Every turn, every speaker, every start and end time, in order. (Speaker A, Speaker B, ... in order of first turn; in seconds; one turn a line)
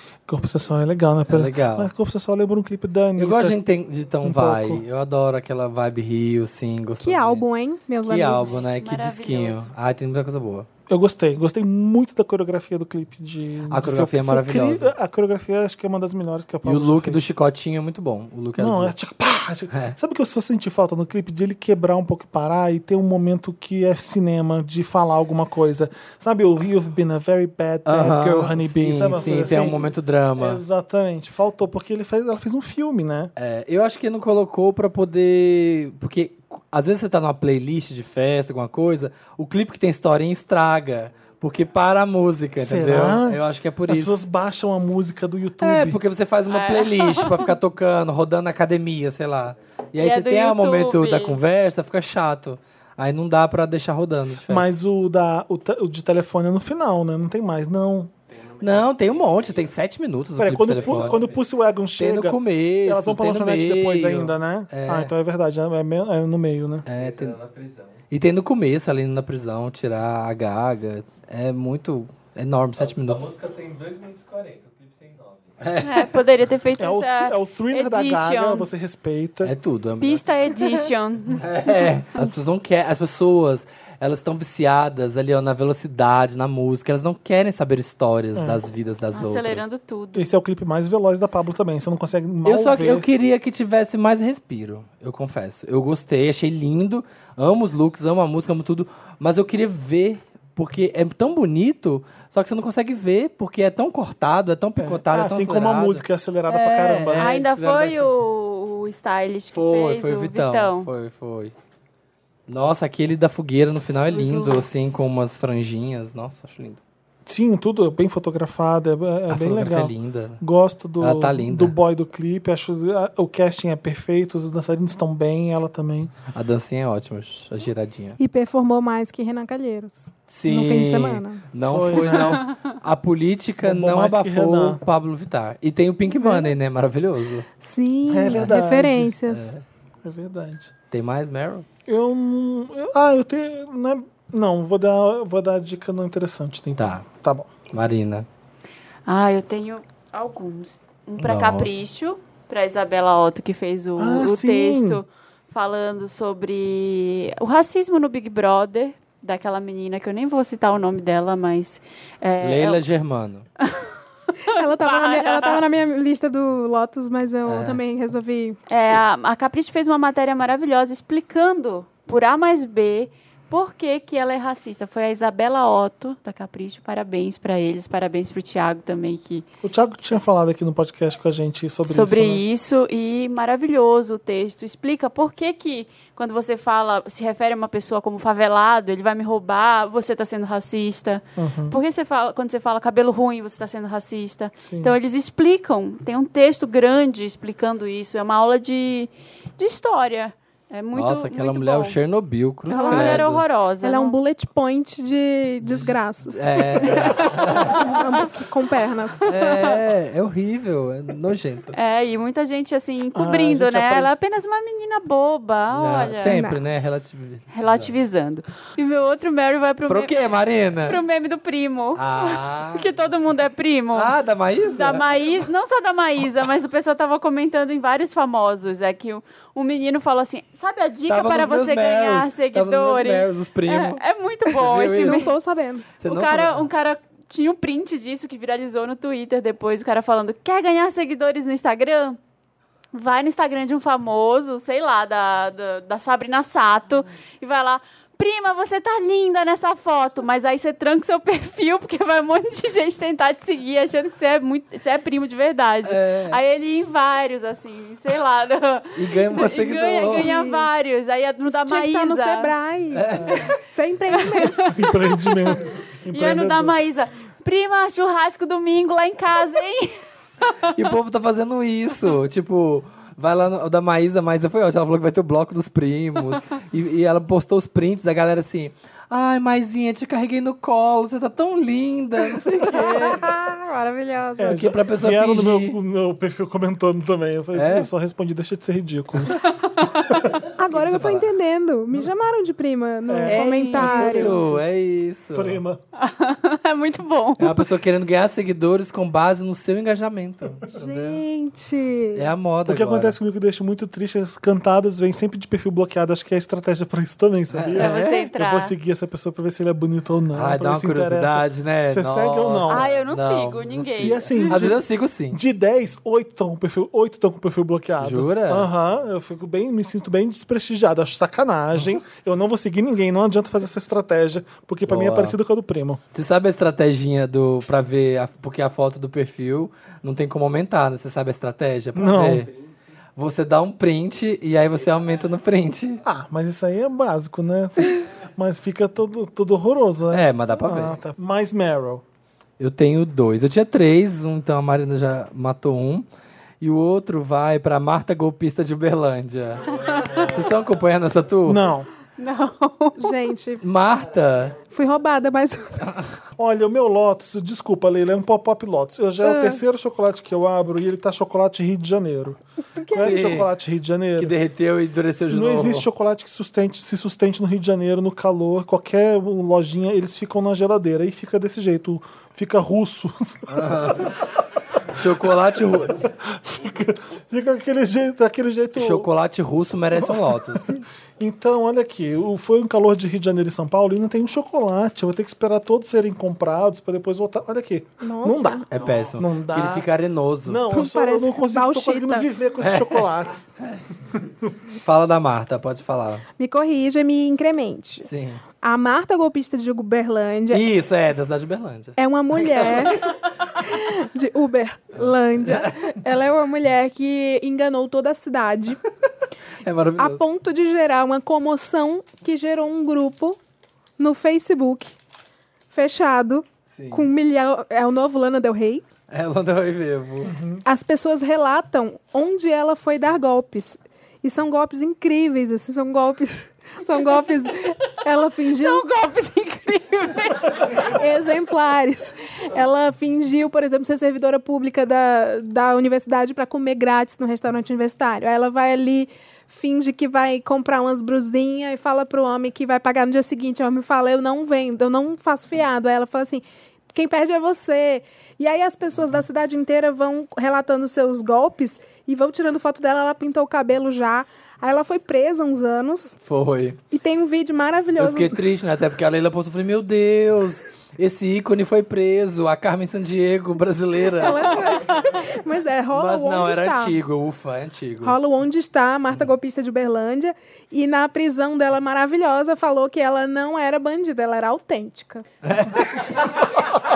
Speaker A: 0.3-3.6
Speaker B: 1.3-1.9
Speaker B: 3.2-7.4
Speaker A: 4.2-4.8
Speaker C: 7.0-8.7
Speaker B: 8.0-10.7
Speaker D: 8.6-9.7
Speaker A: 10.9-17.2
Speaker B: 13.7-14.9
Speaker B: 16.6-18.9
Speaker A: 18.6-33.3
Speaker B: 27.9-30.6
Speaker B: 33.4-44.2
Speaker A: 42.6-46.0
Speaker B: 45.6-54.7
Speaker D: 46.5-47.5
Speaker D: 50.0-51.4
Speaker A: 54.5-58.1
Speaker E: 58.4-59.7
Speaker B: 58.6-61.3
Speaker A: 60.4-66.8
Speaker B: 62.0-65.1
Speaker B: 66.8-67.4
Speaker E: 66.9-68.0
Speaker B: 68.1-73.3
Speaker E: 72.8-75.8
Speaker B: 75.6-76.2
Speaker D: 75.8-78.7
Speaker A: 76.8-79.5
Speaker B: 79.4-80.2
Speaker D: 80.0-81.7
Speaker B: 81.4-89.6
Speaker A: 88.3-88.6
Speaker D: 89.1-90.3
Speaker A: 90.1-93.1
Speaker B: 92.4-108.1
Speaker A: 104.8-107.3
Speaker D: 107.2-110.9
Speaker B: 109.5-111.5
Speaker B: 112.5-116.8
Speaker D: 114.1-115.0
Speaker A: 117.2-126.1
Speaker B: 119.3-120.4
Speaker B: 121.0-121.7
Speaker B: 126.3-128.2
Speaker C: 128.2-131.4
Speaker B: 130.3-137.5
Speaker A: 131.6-132.4
Speaker A: 133.6-134.8
Speaker C: 136.2-136.5
Speaker C: 137.6-139.5
Speaker A: 138.1-139.1
Speaker B: 139.3-139.6
Speaker A: 140.0-140.7
Speaker B: 140.9-141.7
Speaker A: 141.9-147.5
Speaker B: 146.8-147.0
Speaker B: 147.7-148.2
Speaker D: 149.1-162.8
Speaker B: 151.2-151.7
Speaker A: 153.9-155.0
Speaker B: 162.4-163.4
Speaker C: 164.5-168.6
Speaker D: 164.6-165.6
Speaker B: 167.4-167.8
Speaker D: 168.7-179.4
Speaker A: 179.6-182.4
Speaker D: 181.8-202.0
Speaker A: 191.4-191.8
Speaker A: 194.7-194.9
Speaker B: 200.9-203.5
Speaker D: 202.7-204.2
Speaker C: 202.7-203.3
Speaker C: 203.8-209.3
Speaker B: 205.7-208.0
Speaker D: 207.2-207.9
Speaker B: 209.2-211.7
Speaker D: 211.7-216.4
Speaker A: 213.1-214.2
Speaker B: 215.7-217.9
Speaker C: 216.2-216.6
Speaker D: 217.5-220.3
Speaker B: 219.9-221.0
Speaker D: 220.8-224.1
Speaker B: 221.9-222.9
Speaker B: 223.9-225.1
Speaker D: 224.8-235.3
Speaker B: 231.1-235.3
Speaker C: 235.0-235.8
Speaker B: 236.0-236.7
Speaker D: 236.1-242.2
Speaker D: 242.9-262.5
Speaker B: 255.8-256.4
Speaker B: 258.9-260.3
Speaker C: 260.0-260.7
Speaker C: 261.5-264.7
Speaker B: 262.9-263.5
Speaker A: 263.2-263.5
Speaker D: 264.4-265.6
Speaker A: 264.6-266.8
Speaker D: 266.1-270.0
Speaker B: 270.7-283.3
Speaker C: 282.7-284.7
Speaker A: 284.4-289.4
Speaker B: 284.5-285.8
Speaker B: 287.5-287.9
Speaker C: 290.6-294.4
Speaker B: 290.6-291.3
Speaker A: 293.1-294.6
Speaker B: 293.3-295.6
Speaker A: 295.3-295.8
Speaker D: 296.0-297.7
Speaker B: 297.4-301.2
Speaker C: 300.7-302.2
Speaker B: 302.1-303.1
Speaker A: 302.6-312.9
Speaker B: 307.5-308.3
Speaker D: 307.8-308.7
Speaker B: 310.3-315.4
Speaker D: 312.7-314.7
Speaker A: 314.0-326.0
Speaker B: 318.0-318.7
Speaker B: 324.9-325.4
Speaker B: 326.1-332.5
Speaker A: 331.9-332.5
Speaker B: 333.1-336.0
Speaker A: 336.0-342.0
Speaker B: 340.1-340.9
Speaker B: 342.6-346.1
Speaker B: 346.6-351.6
Speaker D: 349.8-350.3
Speaker A: 351.4-351.9
Speaker D: 352.2-353.1
Speaker C: 353.0-353.6
Speaker B: 353.6-354.5
Speaker C: 354.7-356.0
Speaker A: 356.4-362.4
Speaker C: 359.2-359.6
Speaker C: 362.8-363.3
Speaker A: 362.9-364.3
Speaker B: 362.9-363.5
Speaker B: 364.2-365.9
Speaker A: 365.3-373.7
Speaker B: 373.5-374.2
Speaker B: 374.9-376.0
Speaker A: 376.2-379.1
Speaker B: 378.8-380.7
Speaker A: 379.9-388.6
Speaker C: 388.0-388.6
Speaker B: 388.7-390.6
Speaker A: 389.2-389.9
Speaker A: 390.4-393.4
Speaker C: 390.7-392.3
Speaker B: 392.6-393.1
Speaker B: 394.8-396.2
Speaker C: 396.4-398.1
Speaker B: 398.1-398.4
Speaker C: 398.6-400.6
Speaker B: 400.5-403.0
Speaker C: 402.0-408.8
Speaker B: 405.4-405.9
Speaker B: 409.6-410.2
Speaker C: 410.0-413.4
Speaker C: 414.0-414.9
Speaker C: 415.7-418.8
Speaker B: 416.7-417.1
Speaker B: 419.1-420.3
Speaker A: 420.2-420.6
Speaker C: 420.6-428.9
Speaker D: 428.5-430.9
Speaker C: 430.7-456.2
Speaker B: 456.2-456.8
Speaker C: 456.9-458.4
Speaker B: 458.0-464.6
Speaker C: 464.1-466.9
Speaker B: 465.9-468.1
Speaker C: 468.0-475.2
Speaker B: 475.4-476.6